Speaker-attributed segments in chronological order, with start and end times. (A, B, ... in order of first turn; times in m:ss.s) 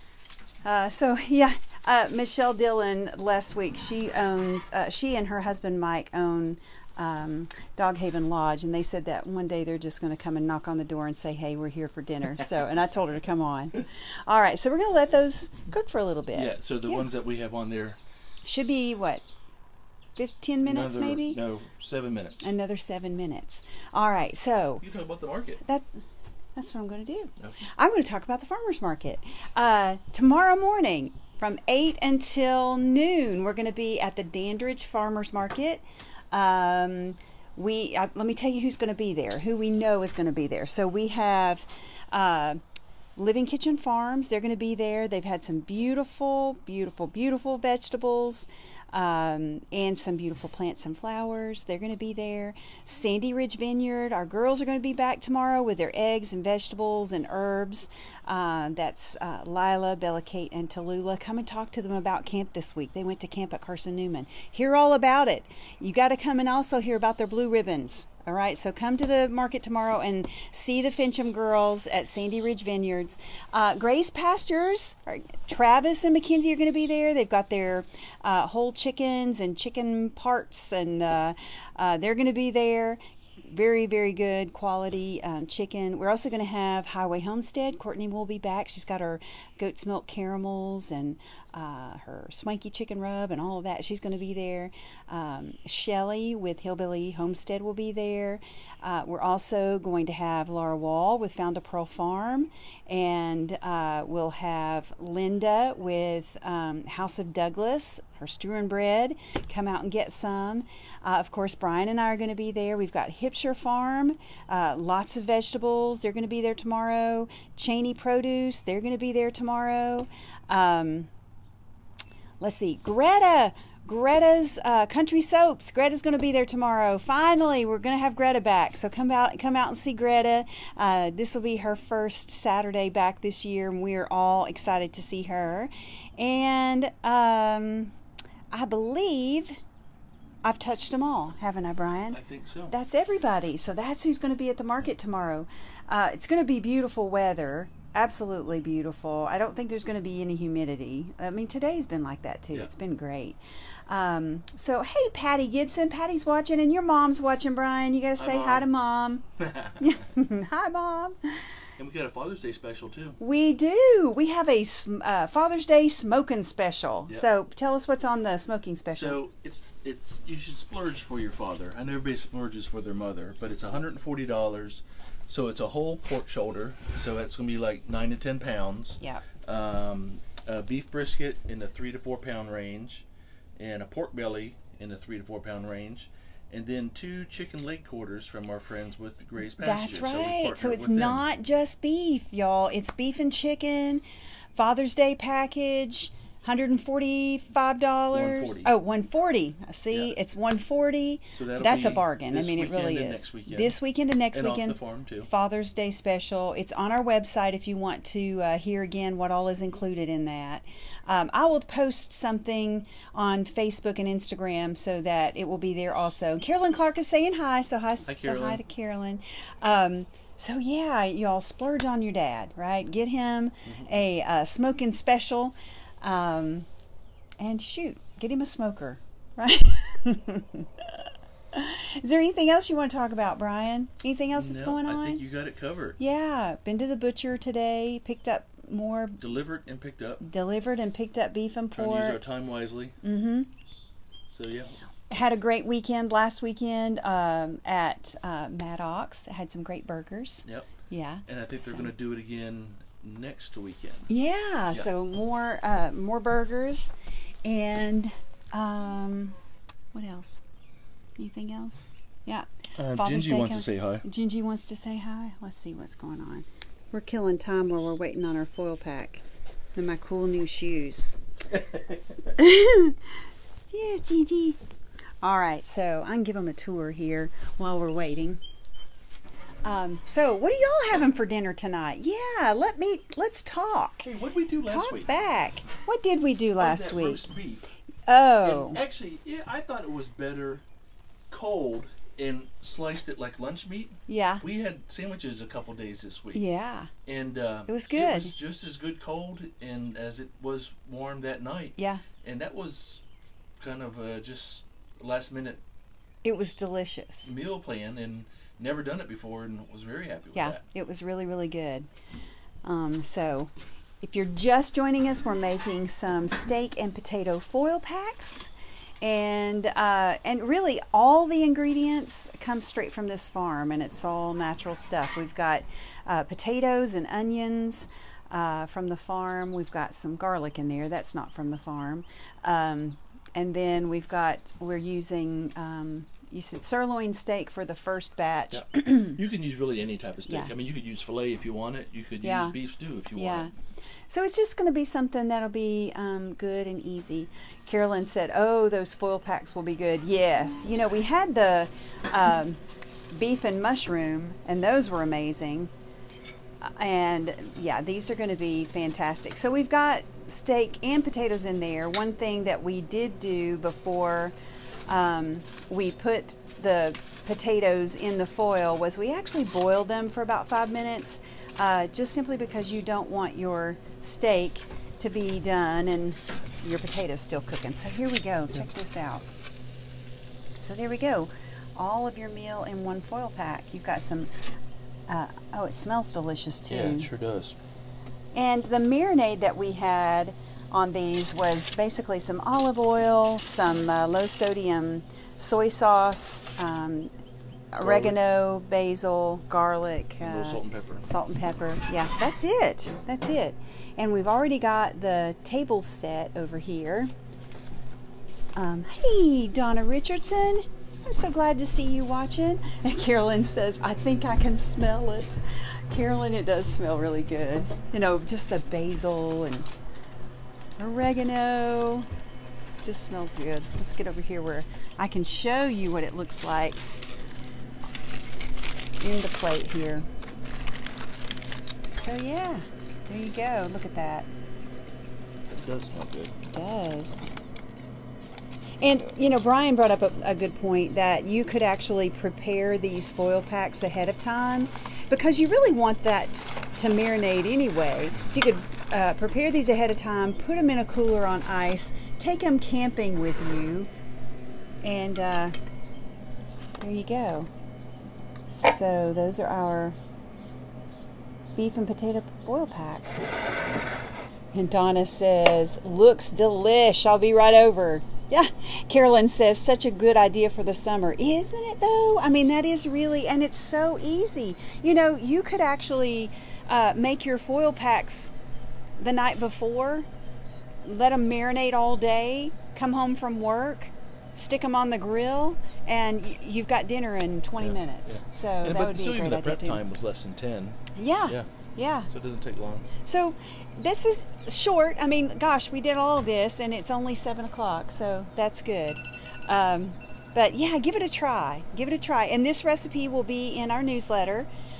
0:00.6-0:17.1 A
0:16.3-0:18.0 B
0:18.4-0:19.2 A
0:20.2-0:21.4 A
0:20.6-0:22.5 B
0:22.4-0:24.8 A
0:24.8-0:25.6 B
0:25.6-0:25.9 A
0:26.6-0:42.6 A
0:43.2-2:01.1 A
2:02.4-2:17.9 A
2:18.5-2:19.6 A
2:20.4-2:39.2 A
2:22.1-2:22.7 B
2:38.2-2:38.7 B
2:39.4-2:39.9 B
2:39.8-2:41.4 A
2:41.8-2:43.2 B
2:43.2-2:49.2 A
2:48.9-3:03.0 B
3:03.6-3:11.2 B
3:09.6-3:14.0 A
3:14.5-3:46.7 A
3:18.1-3:18.7 B
3:21.3-3:23.8 B
3:24.3-3:25.3 B
3:38.1-3:38.6 B
3:47.4-3:55.2 A
3:54.3-3:56.0 B
3:56.0-3:59.2 A
3:59.2-4:00.2 B
4:00.2-4:02.2 A
4:01.7-4:03.0 B
4:03.0-4:03.5 A
4:04.3-4:04.7 B
4:05.1-4:11.9 A
4:11.2-4:14.1 B
4:14.1-4:19.4 A
4:19.9-4:20.4 A
4:21.2-4:29.2 A
4:22.8-4:24.0 B
4:29.7-4:31.1 A
4:32.3-4:33.0 A
4:33.7-4:34.6 A
4:35.2-4:38.4 A
4:39.6-4:44.1 A
4:44.0-4:45.1 B
4:44.6-4:47.2 A
4:46.6-4:47.6 B
4:48.0-4:48.8 A
4:48.4-4:50.6 B
4:51.3-4:56.4 B
4:54.1-4:54.4 A
4:56.3-4:56.9 A
4:57.0-5:03.0 B
4:57.7-4:58.3 A
5:01.8-5:02.0 A
5:03.6-5:05.6 B
5:06.2-5:07.3 A
5:07.2-5:10.6 B
5:10.3-5:11.9 A
5:12.6-5:39.2 A
5:38.5-5:43.5 B
5:42.2-5:42.6 A
5:43.1-5:43.5 A
5:44.1-5:55.7 A
5:56.6-6:04.3 A
6:04.9-6:19.3 A
6:20.6-6:24.3 A
6:25.1-6:27.1 A
6:26.7-6:27.6 B
6:28.3-6:37.1 A
6:37.7-6:47.1 A
6:37.8-6:38.2 B
6:40.2-6:41.0 B
6:48.5-6:59.7 A
7:00.8-7:02.1 A
7:02.8-7:06.8 A
7:09.0-7:10.1 A
7:11.9-7:14.3 A
7:15.5-7:16.4 B
7:16.4-7:17.2 A
7:18.8-7:33.9 A
7:34.8-7:35.5 A
7:36.8-7:37.5 A
7:38.5-7:40.0 A
7:41.6-7:43.3 A
7:44.5-7:58.3 A
7:59.0-8:00.1 A
8:00.8-8:09.8 A
8:07.6-8:11.5 B
8:10.9-8:12.1 A
8:12.1-8:12.9 B
8:13.0-8:24.5 A